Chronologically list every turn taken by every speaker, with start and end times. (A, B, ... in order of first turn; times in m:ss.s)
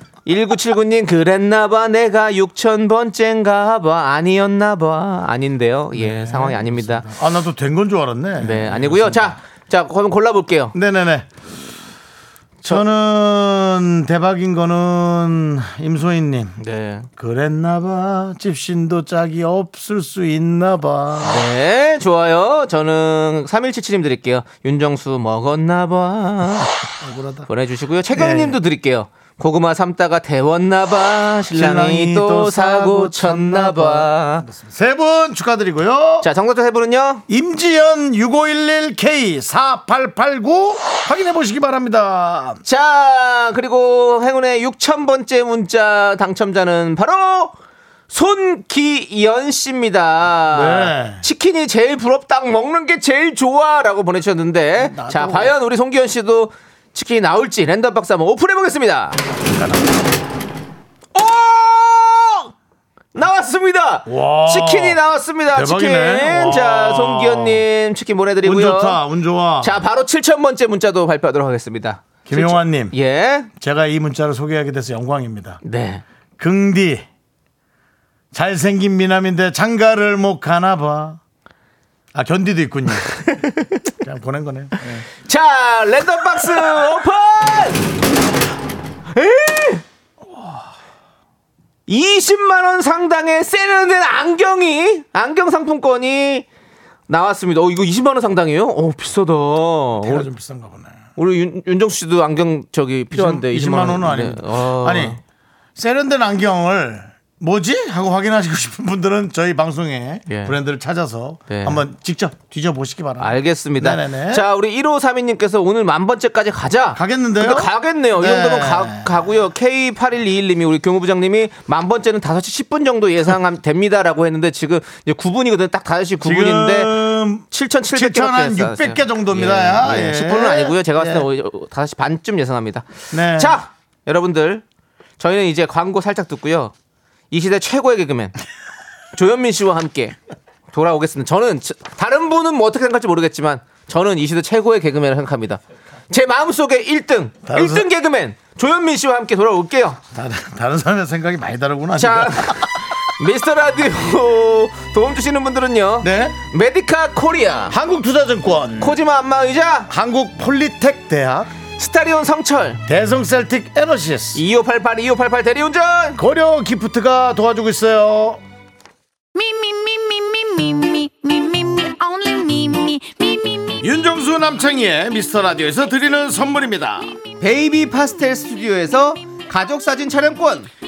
0:00.2-0:07.1 A
0:05.9-0:09.4 B
0:08.4-0:10.7 A
0:10.7-0:11.3 B
0:12.6-0:16.6 B
0:16.6-0:17.1 A
0:17.2-0:21.4 B
0:21.2-0:26.8 A
0:27.0-0:27.5 B
0:27.5-0:34.4 A
0:28.1-0:28.6 B
0:31.5-0:36.2 B
0:36.2-0:37.2 A
0:37.3-0:42.6 B
0:42.6-0:47.6 A
0:48.1-0:59.2 A
0:50.5-0:51.2 B
0:54.8-0:55.5 B
0:59.5-0:59.9 B
1:01.1-1:02.5 A
1:03.1-1:09.0 A
1:04.0-1:07.6 B
1:08.4-1:09.8 B
1:09.6-1:13.5 A
1:12.2-1:12.9 B
1:13.5-1:15.6 B
1:15.6-1:16.0 A
1:16.4-1:17.0 B
1:18.3-1:21.2 B
1:22.1-1:23.1 B
1:23.2-1:23.7 A
1:23.9-1:25.0 B
1:25.2-1:27.8 A
1:29.1-1:29.8 A
1:31.9-1:36.4 A
1:37.1-1:40.3 A
1:40.0-1:41.0 B
1:41.2-1:45.2 A
1:43.1-1:45.2 B
1:45.8-1:54.4 B
1:50.3-1:50.5 A
1:51.5-1:51.8 A
1:53.2-2:14.6 A
1:56.9-1:59.2 B
2:06.2-2:11.2 B
2:13.1-2:13.6 B
2:15.2-2:16.7 A
2:17.3-2:18.3 A
2:19.1-2:20.2 A
2:20.7-2:30.0 A
2:27.4-2:27.9 B
2:30.1-2:32.7 B
2:32.0-2:37.8 A
2:36.0-2:36.4 B
2:37.7-2:39.0 B
2:38.8-2:39.9 A
2:39.9-2:41.5 B
2:41.8-2:42.8 A
2:42.8-2:44.4 B
2:44.3-2:46.2 A
2:46.2-2:48.4 B
2:49.4-2:53.8 C
2:53.8-2:57.1 B
2:57.4-3:00.7 A